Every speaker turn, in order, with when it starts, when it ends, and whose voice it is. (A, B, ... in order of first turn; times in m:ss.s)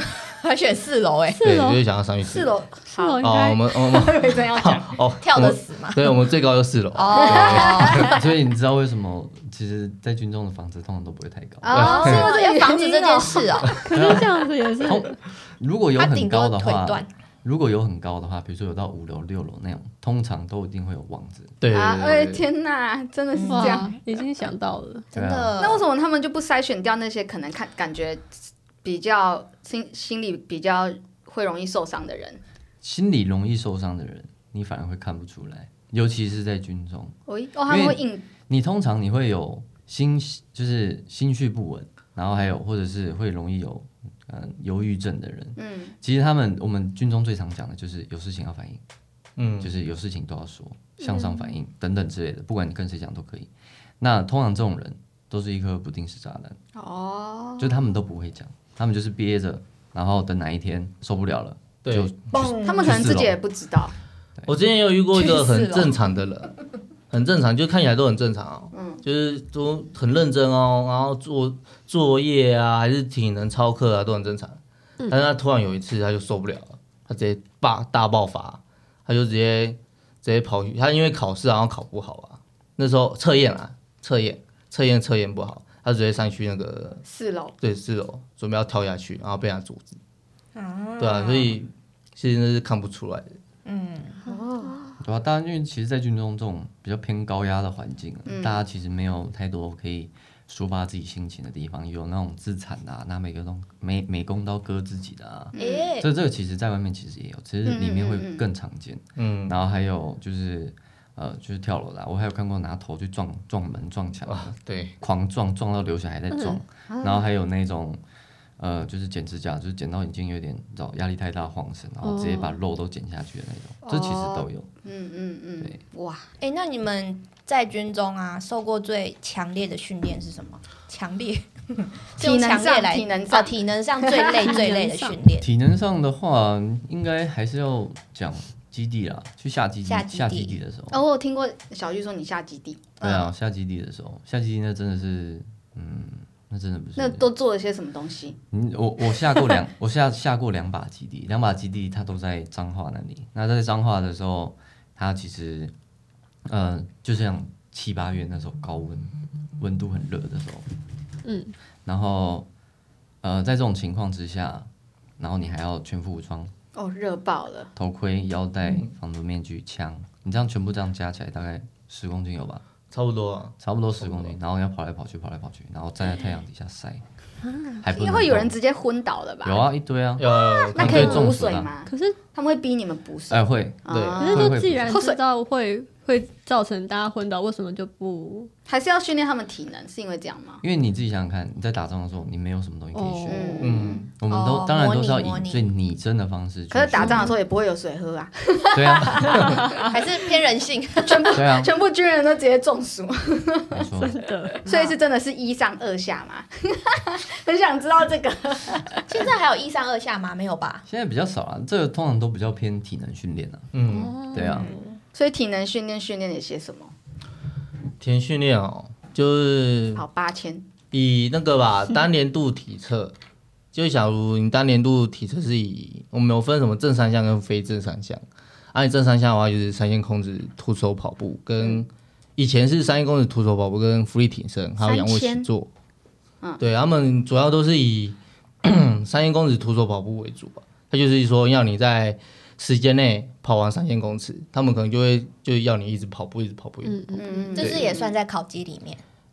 0:00.2-0:01.4 A
0:01.3-0:01.8 B
0:01.4-0:02.6 C
0:02.2-0:05.0 D
0:02.9-0:03.7 B
0:03.2-0:08.1 C
0:05.2-0:06.1 A
0:06.9-0:08.1 A
0:07.2-0:08.2 D
0:08.1-0:12.0 E
0:11.6-0:13.7 D
0:11.7-0:12.3 C
0:11.7-0:13.8 A
0:13.7-0:14.1 C
0:13.8-0:15.2 B
0:13.9-0:21.6 E
0:16.0-0:17.1 A
0:21.6-0:22.4 C
0:21.7-0:23.9 D
0:23.3-0:23.9 A
0:23.5-0:25.1 B
0:25.1-0:25.8 A
0:25.1-0:25.5 E
0:25.6-0:28.2 D
0:28.8-0:32.4 D
0:32.8-0:37.2 E
0:37.3-0:38.2 D
0:37.7-0:48.8 E
0:45.6-0:45.9 D
0:49.4-0:49.7 C
0:49.6-0:53.5 E
0:51.0-0:51.6 B
0:54.0-0:56.6 E
0:56.8-0:57.8 D
0:57.6-1:03.4 E
1:01.8-1:02.1 C
1:02.3-1:03.1 A
1:02.6-1:03.9 D
1:04.5-1:06.5 C
1:05.1-1:06.0 A
1:07.1-1:27.0 C
1:08.7-1:09.0 D
1:27.0-1:27.5 D
1:27.6-1:30.0 C
1:30.5-1:31.6 A
1:31.0-1:33.3 C
1:33.6-1:34.2 A
1:34.3-1:34.8 D
1:35.0-1:58.0 E
1:38.2-1:38.6 D
1:45.5-1:45.9 D
1:45.5-1:46.1 A
1:47.6-1:48.4 D
1:49.2-1:49.6 C
1:54.3-1:54.9 C
1:56.3-1:56.6 B
1:56.9-1:57.3 D
1:58.6-2:04.7 E
2:02.0-2:02.6 B
2:03.8-2:06.3 D
2:06.4-2:15.5 A
2:12.2-2:14.6 D
2:14.4-2:15.2 B
2:15.4-2:21.0 E
2:19.8-2:20.6 A
2:20.9-2:22.9 D
2:23.0-2:23.3 A
2:23.0-2:27.2 E
2:27.0-2:28.4 D
2:28.5-2:35.7 E
2:36.4-2:40.6 E
2:41.2-2:41.5 B
2:41.8-2:42.4 E
2:43.2-2:44.7 E
2:45.2-2:46.5 E
2:46.7-2:47.7 D
2:47.8-2:52.6 E
2:52.9-2:54.3 C
2:53.6-2:57.0 E
2:57.4-2:57.8 B
2:57.8-2:58.6 E
2:57.9-2:59.6 D
2:59.4-3:01.7 E
3:00.2-3:01.3 C
3:00.3-3:05.2 D
3:01.8-3:02.2 B
3:03.3-3:05.0 E
3:03.9-3:04.2 C
3:04.2-3:08.5 B
3:08.7-3:10.6 D
3:10.6-3:17.3 E
3:12.9-3:13.7 B
3:13.3-3:14.1 D
3:13.6-3:14.0 C
3:14.3-3:15.7 A
3:16.7-3:19.9 D
3:17.0-3:17.4 B
3:18.7-3:19.6 E
3:19.4-3:19.8 B
3:19.9-3:21.4 A
3:21.0-3:23.8 D
3:21.3-3:21.7 E
3:23.7-3:24.2 E
3:24.0-3:24.6 B
3:24.6-3:29.1 D
3:29.1-3:30.8 A
3:30.9-3:33.7 E
3:33.7-3:34.1 C
3:33.8-3:34.7 B
3:34.3-3:34.7 E
3:34.4-3:35.0 A
3:35.1-3:36.9 D
3:38.0-3:40.0 C
3:39.9-3:40.6 D
3:40.9-3:43.1 C
3:43.7-3:48.2 C
3:48.7-3:55.7 C
3:54.8-3:55.5 D
3:56.6-4:07.9 C
4:06.8-4:07.6 B
4:07.1-4:08.1 D
4:07.5-4:09.0 A